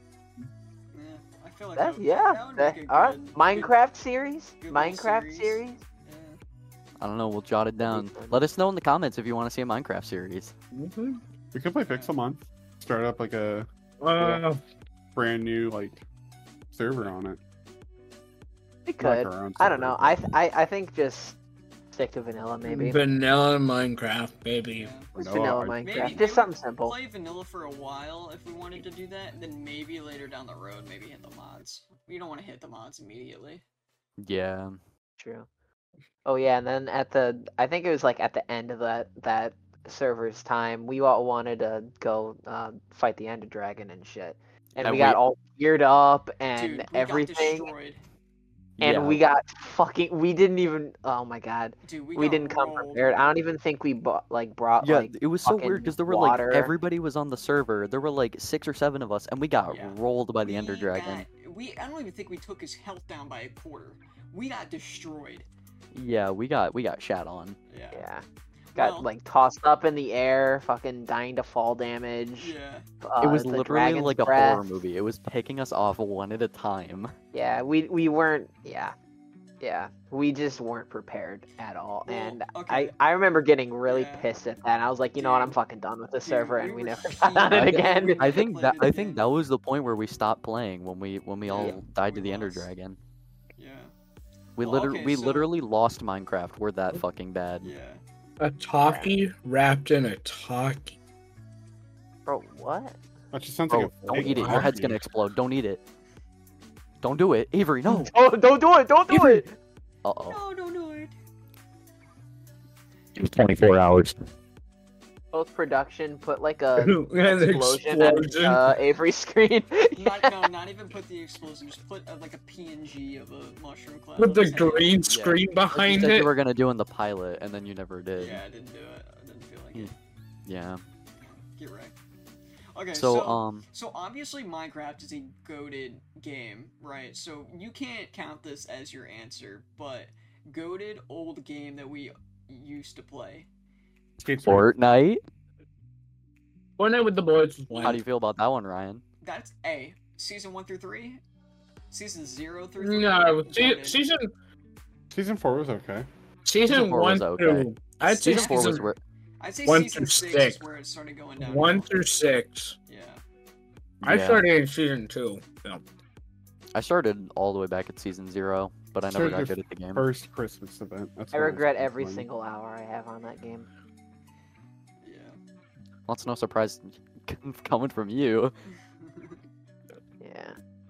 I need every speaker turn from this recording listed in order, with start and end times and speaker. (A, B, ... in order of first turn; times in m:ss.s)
0:00.9-0:03.7 A
0:01.8-0:05.8 B
0:04.6-0:06.4 A
0:07.0-0:10.5 C
0:07.8-0:08.4 B
0:10.7-0:11.2 D
0:11.5-0:13.7 E
0:11.8-0:12.1 A
0:14.0-0:14.6 D
0:15.1-0:16.0 E
0:16.7-0:17.4 E
0:18.8-0:21.4 B
0:19.0-0:20.2 E
0:21.9-0:23.0 B
0:22.6-0:24.9 D
0:24.7-0:25.1 A
0:25.1-0:26.2 E
0:25.2-0:27.0 B
0:25.8-0:33.6 A
0:34.2-0:34.8 C
0:35.2-0:35.5 B
0:36.2-0:47.7 B
0:44.8-0:45.2 C
0:46.6-0:48.0 A
0:48.8-0:49.2 C
0:48.8-0:56.7 B
0:51.8-0:53.4 A
0:54.8-1:01.2 C
0:59.7-1:05.4 A
1:05.9-1:07.6 C
1:07.7-1:08.0 A
1:07.9-1:08.2 B
1:08.7-1:09.1 A
1:08.8-1:14.6 B
1:12.4-1:12.8 A
1:13.2-1:17.1 C
1:17.3-1:18.9 B
1:19.6-1:28.4 B
1:22.1-1:23.0 A
1:23.8-1:24.3 A
1:25.2-1:25.6 A
1:26.2-1:29.2 A
1:27.5-1:33.0 C
1:31.5-1:32.7 A
1:33.6-1:33.9 A
1:34.6-1:37.7 C
1:34.6-1:35.5 A
1:37.6-1:38.0 A
1:38.4-1:41.0 D
1:38.8-1:39.1 B
1:42.2-1:43.0 B
1:43.3-1:45.0 E
1:43.7-1:45.8 C
1:44.2-1:44.7 D
1:47.0-1:48.1 C
1:47.9-1:49.6 B
1:49.1-1:49.4 D
1:50.0-1:50.4 C
1:50.2-1:51.1 A
1:53.6-1:54.1 D
1:55.3-2:00.4 B
1:56.8-1:58.8 D
1:59.9-2:05.0 A
2:04.2-2:06.3 D
2:05.0-2:08.4 C
2:08.2-2:09.9 A
2:10.4-2:10.8 C
2:11.2-2:11.9 A
2:12.7-2:23.5 A
2:12.9-2:13.6 C
2:24.2-2:24.7 E
2:24.4-2:25.2 C
2:26.8-2:28.0 D
2:27.7-2:28.0 A
2:27.8-2:29.0 C
2:29.2-2:31.2 A
2:31.9-2:34.0 A
2:32.8-2:34.3 D
2:35.1-2:36.1 E
2:36.4-2:38.9 D
2:36.7-2:39.0 C
2:38.3-2:38.8 A
2:39.4-2:41.9 A
2:39.6-2:40.6 D
2:41.4-2:42.8 D
2:42.9-2:43.2 A
2:44.0-2:44.4 C
2:44.0-2:45.8 D
2:46.7-2:50.0 C
2:49.0-2:52.2 E
2:51.3-2:53.7 B
2:55.0-2:55.4 A
2:56.1-2:58.5 C
2:59.0-2:59.4 A
3:00.2-3:00.6 B